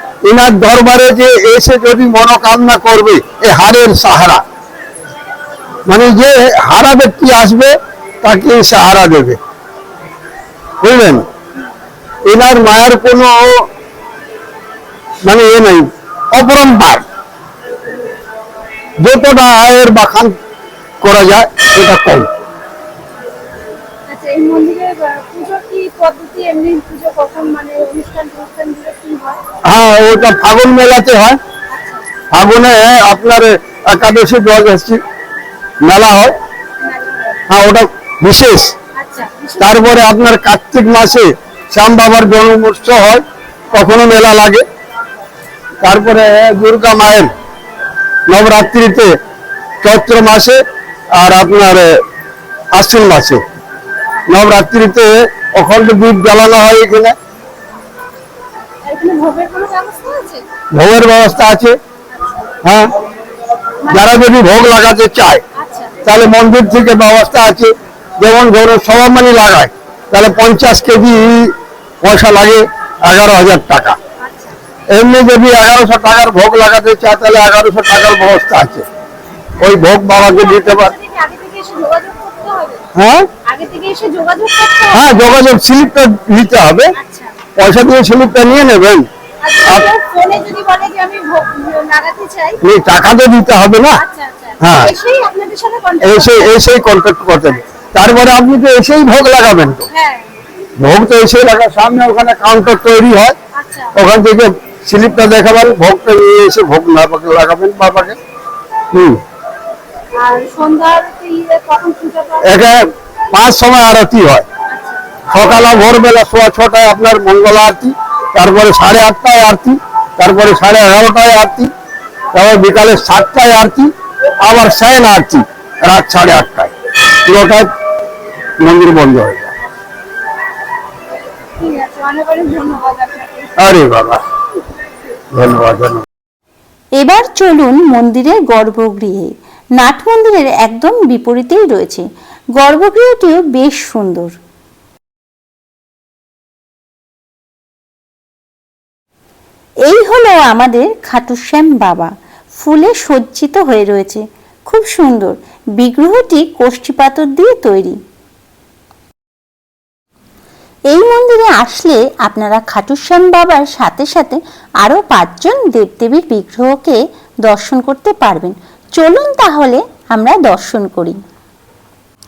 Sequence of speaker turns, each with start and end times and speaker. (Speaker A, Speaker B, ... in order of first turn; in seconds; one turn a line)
Speaker A: 0.2-4.4
Speaker A: 5.9-9.4
Speaker A: 10.8-11.2
Speaker A: 12.2-13.7
Speaker A: 15.2-17.1
Speaker A: 19.0-20.3
Speaker A: 21.0-22.3
Speaker B: 24.1-29.4
Speaker A: 29.6-31.4
Speaker A: 32.3-35.0
Speaker A: 35.8-36.3
Speaker B: 36.9-37.4
Speaker A: 37.5-38.7
Speaker B: 39.0-39.9
Speaker A: 39.6-44.6
Speaker A: 45.8-47.3
Speaker A: 48.3-49.1
Speaker A: 49.8-50.6
Speaker A: 51.2-51.9
Speaker A: 52.7-53.4
Speaker A: 54.3-57.1
Speaker B: 58.9-60.4
Speaker C: 59.0-59.3
Speaker A: 60.7-61.8
Speaker A: 62.6-62.9
Speaker A: 63.9-65.4
Speaker B: 65.6-65.9
Speaker A: 66.0-74.0
Speaker B: 74.2-74.5
Speaker A: 74.9-78.9
Speaker A: 79.6-80.9
Speaker B: 80.2-82.8
Speaker A: 82.9-83.3
Speaker B: 83.5-85.3
Speaker A: 84.9-86.9
Speaker B: 87.0-87.3
Speaker A: 87.6-89.1
Speaker B: 89.5-92.6
Speaker A: 92.6-94.0
Speaker B: 94.0-96.5
Speaker A: 94.6-94.9
Speaker A: 96.0-99.9
Speaker B: 99.9-100.2
Speaker A: 100.8-103.4
Speaker B: 103.6-103.9
Speaker A: 103.9-108.2
Speaker A: 108.9-109.2
Speaker B: 110.2-112.7
Speaker A: 112.4-114.5
Speaker A: 115.3-121.7
Speaker A: 122.3-126.7
Speaker A: 127.2-127.7
Speaker A: 128.6-129.5
Speaker B: 131.6-133.5
Speaker A: 133.6-134.2
Speaker A: 135.3-136.1
Speaker C: 137.0-142.1
Speaker C: 142.6-144.4
Speaker C: 149.9-158.0
Speaker C: 160.9-171.2